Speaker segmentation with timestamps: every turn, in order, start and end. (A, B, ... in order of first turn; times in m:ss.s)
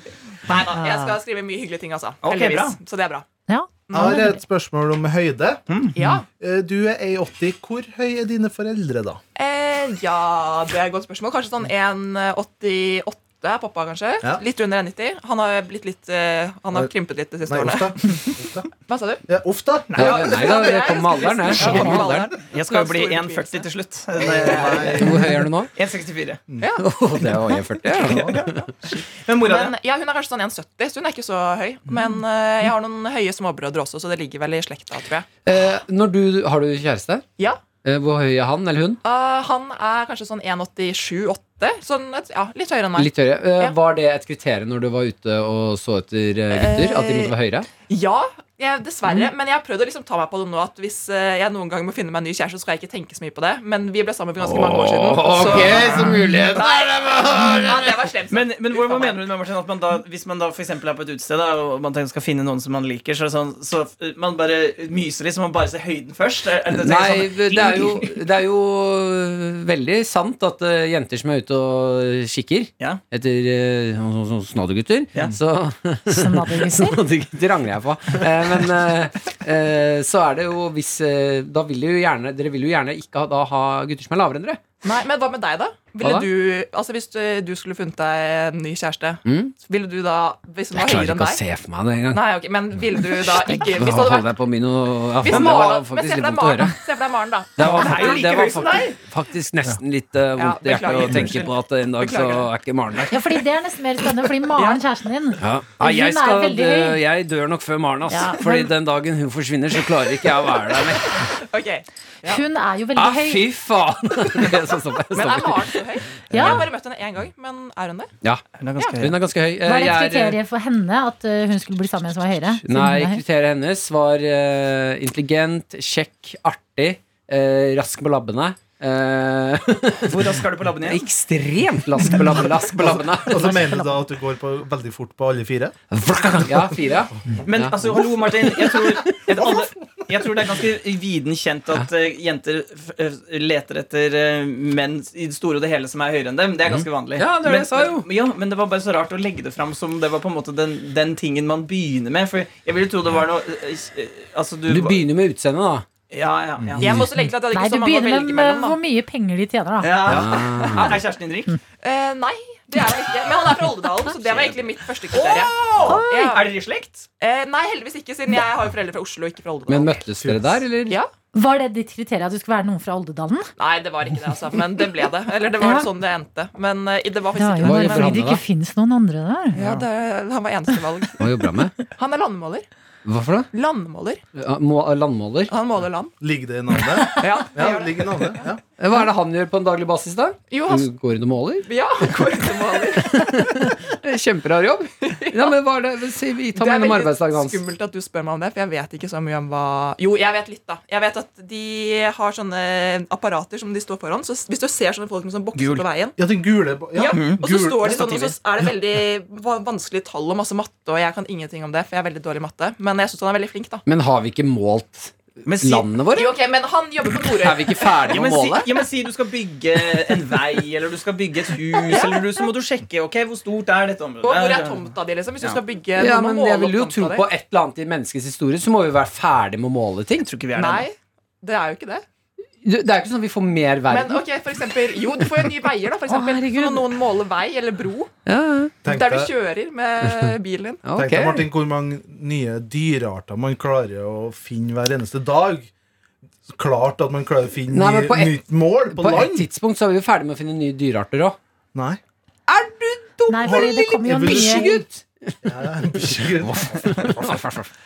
0:00.5-0:01.2 A
0:00.5-0:03.3 B
0:02.2-0:02.8 A
0:03.5-0:04.4 C
0:03.9-0:04.3 B
0:03.9-0:05.6 D
0:05.7-0:06.0 A
0:06.0-0:06.3 B
0:06.4-0:09.2 D
0:09.4-0:18.1 B
0:17.5-0:18.7 D
0:18.9-0:19.2 B
0:19.3-0:20.5 D
0:19.9-0:20.8 A
0:20.0-0:22.4 E
0:20.0-0:23.7 B
0:21.5-0:26.4 A
0:21.6-0:22.0 C
0:24.2-0:25.4 D
0:25.0-0:25.7 E
0:26.6-0:26.9 B
0:26.8-0:28.7 E
0:28.0-0:29.7 A
0:29.4-0:35.3 B
0:35.4-0:37.2 E
0:37.8-0:39.0 E
0:39.0-0:43.8 B
0:43.0-0:47.7 E
0:46.5-0:47.4 B
0:47.9-0:59.2 B
0:54.4-0:57.9 E
0:55.6-0:56.1 D
0:58.3-1:08.2 A
1:06.7-1:24.6 E
1:16.1-1:17.0 C
1:24.8-1:31.4 B
1:26.0-1:26.3 E
1:29.2-1:29.5 E
1:30.7-1:32.2 E
1:32.1-1:34.3 B
1:33.0-1:36.8 E
1:35.2-1:38.7 B
1:37.6-1:43.2 E
1:37.6-1:39.0 A
1:40.4-1:42.5 B
1:43.1-1:47.0 C
1:44.5-1:44.8 B
1:45.4-1:51.3 E
1:48.1-1:48.7 C
1:51.1-1:52.4 B
1:52.2-1:53.5 C
1:53.0-1:56.7 E
1:55.1-1:58.1 B
1:56.3-1:56.7 C
1:58.6-1:59.2 A
1:58.8-1:59.0 B
1:59.0-2:00.4 E
1:59.6-2:03.2 C
2:02.6-2:13.7 E
2:10.0-2:11.0 A
2:12.8-2:16.7 D
2:15.9-2:19.1 E
2:17.4-2:35.0 A
2:26.7-2:28.1 E
2:34.7-2:35.8 E
2:36.1-2:37.0 A
2:36.8-2:38.8 B
2:37.5-2:40.3 C
2:39.8-2:41.6 A
2:40.1-2:41.0 E
2:41.8-2:46.5 B
2:44.2-2:44.6 A
2:45.1-2:47.1 A
2:45.9-2:46.2 C
2:47.2-2:50.0 B
2:49.7-2:51.0 E
2:50.2-2:50.6 D
2:51.3-2:53.5 C
2:53.6-2:58.3 B
2:55.6-2:55.9 C
2:57.4-2:59.6 C
2:57.6-2:58.4 E
2:59.5-2:59.8 A
2:59.6-3:01.3 B
3:01.2-3:01.8 E
3:02.0-3:02.7 B
3:03.0-3:03.5 E
3:03.5-3:04.2 B
3:04.3-3:05.5 E
3:05.5-3:06.1 B
3:06.2-3:08.6 D
3:07.1-3:08.5 B
3:08.8-3:12.3 E
3:10.5-3:10.9 B
3:11.7-3:13.2 B
3:12.8-3:17.6 E
3:15.0-3:15.5 B
3:16.6-3:26.2 B
3:25.6-3:25.8 A
3:26.2-3:28.1 D
3:27.0-3:33.8 B
3:27.0-3:28.4 A
3:33.9-3:36.4 E
3:35.5-3:35.9 A
3:36.1-3:38.4 B
3:37.3-3:38.7 E
3:38.1-3:44.8 A
3:41.9-3:42.2 B
3:44.2-3:47.3 B
3:46.0-3:50.3 E
3:50.2-3:50.9 A
3:50.5-3:52.0 B
3:52.6-3:54.2 E
3:53.9-3:58.1 B
3:56.1-3:56.8 C
3:58.3-3:58.7 E
3:58.8-3:59.3 D
3:58.8-4:00.8 B
4:00.8-4:01.5 E
4:01.0-4:05.7 D
4:06.5-4:09.5 D
4:07.7-4:11.4 E
4:11.7-4:12.0 D
4:12.5-4:17.7 E
4:13.3-4:14.8 C
4:13.4-4:14.8 D
4:15.4-4:17.2 D